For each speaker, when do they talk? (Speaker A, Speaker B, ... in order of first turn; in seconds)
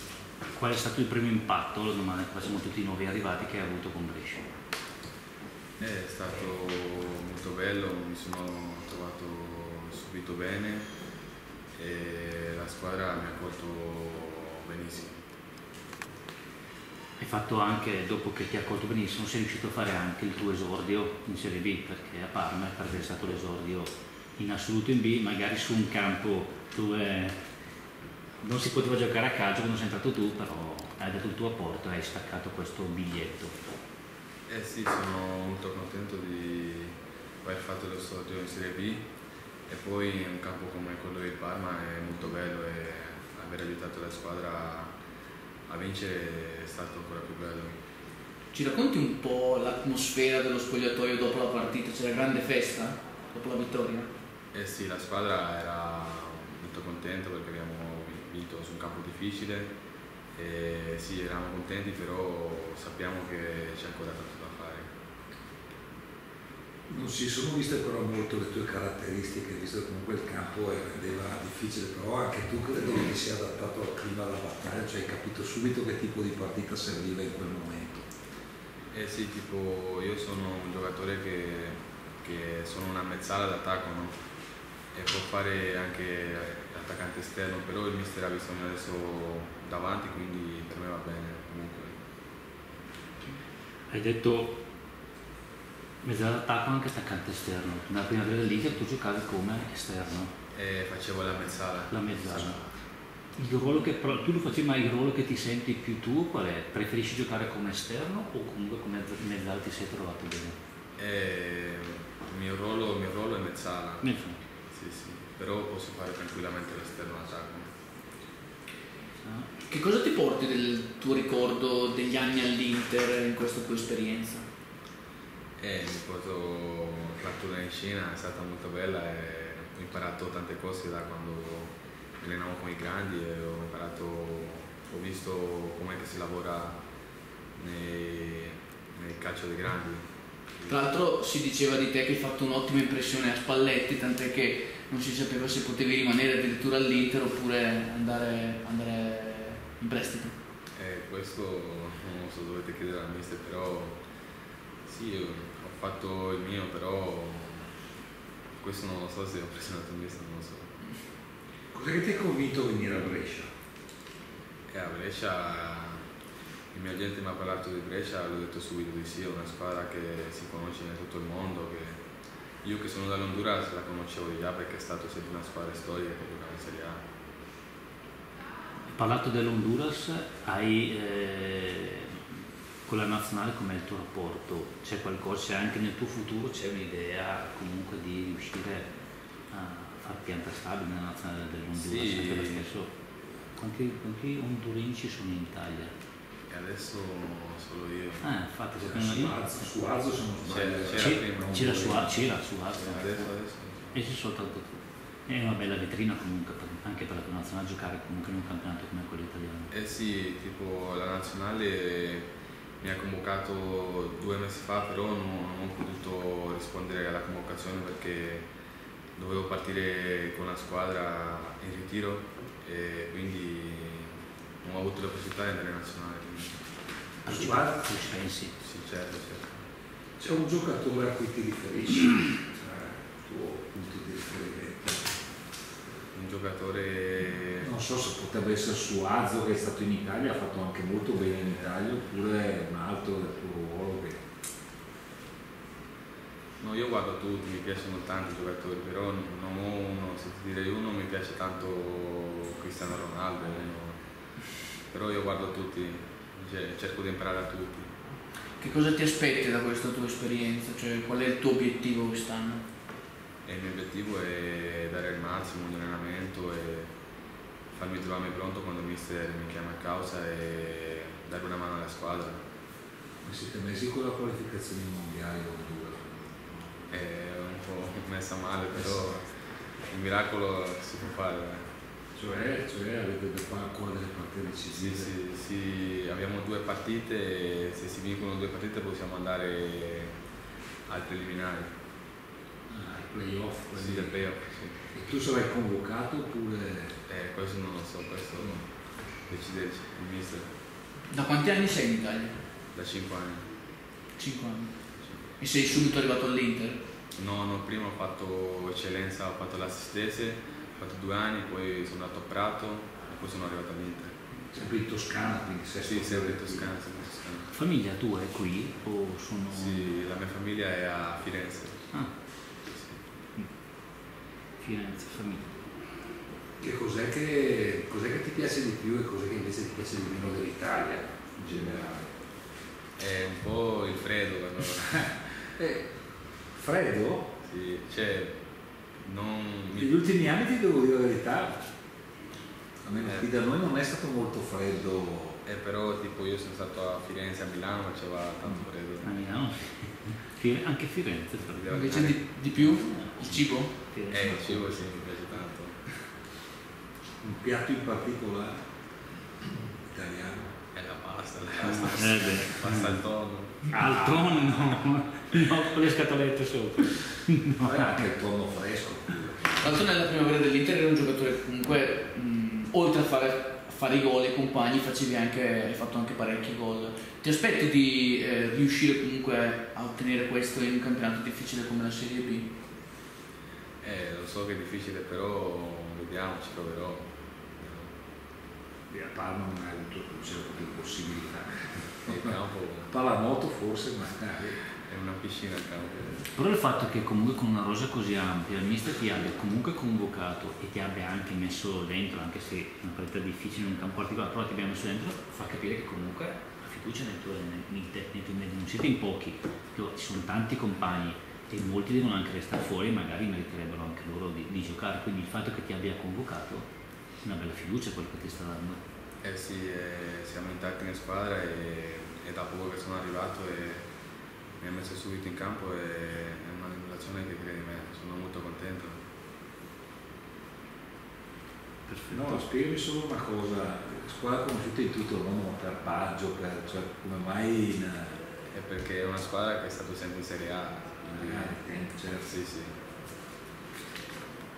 Speaker A: 0.5-4.5, 17.2-27.4, 28.4-33.5, 93.9-94.6, 96.0-100.3, 101.9-102.6, 103.4-110.6, 114.0-114.4, 119.2-119.5, 178.9-182.2, 182.8-188.9, 189.5-192.9, 193.6-195.9, 198.2-199.4, 201.0-203.3, 203.9-209.7, 227.2-228.5, 317.5-319.9, 324.6-325.5, 349.0-351.8, 352.5-354.8, 361.6-363.0, 363.7-367.8, 396.3-416.7, 417.2-418.8, 431.9-432.4
Speaker B: 5.8-10.9, 11.7-15.2, 34.5-39.0, 39.7-44.9, 45.7-47.8, 54.5-59.7, 60.3-64.9, 78.9-84.1, 84.9-91.9, 100.5-102.5, 111.0-114.1, 114.7-117.7, 125.6-136.8, 137.6-140.0, 140.5-140.8, 150.8-154.0, 154.8-157.7, 158.6-160.7, 164.7-166.0, 166.7-172.0, 172.6-177.0, 191.7-192.7, 196.5-198.3, 200.4-202.1, 202.7-203.9, 209.7-212.2, 212.8-218.4, 219.2-226.6, 228.6-229.6, 236.1-237.7, 246.6-253.9, 254.9-257.9, 263.4-266.9, 267.7-272.4, 276.9-279.2, 279.9-281.6, 284.7-290.1, 290.9-291.7, 293.7-294.8, 297.1-298.6, 299.3-300.5, 302.7-303.5, 307.1-314.1, 315.8-317.5, 319.5-321.9, 322.6-323.0, 333.0-335.0, 337.4-338.4, 339.0-340.0, 343.0-343.3, 345.4-349.1, 351.5-352.2, 354.1-355.8, 360.7-363.6, 383.8-387.1, 387.6-387.9, 392.0-392.9, 394.8-396.2, 419.2-423.8, 424.6-429.0, 438.5-441.6, 442.2-442.7
Speaker C: 48.5-54.1, 119.7-124.5, 140.7-150.4, 258.6-262.6, 301.1-302.4, 304.2-304.8, 305.4-306.8, 351.7-353.7, 369.6-382.5
Speaker D: 66.9-78.0, 161.7-163.5, 198.8-201.9, 227.4-227.8, 230.2-235.1, 237.6-244.2, 273.2-277.0, 282.1-285.1, 292.7-294.3, 294.9-296.9, 314.5-316.7, 326.6-332.1, 334.8-335.9, 336.5-337.3, 339.7-341.6, 342.8-345.4, 357.2-358.6, 359.8-360.5, 363.7-364.4, 367.6-369.4, 388.9-392.3, 392.9-394.6, 432.1-438.2, 441.2-442.3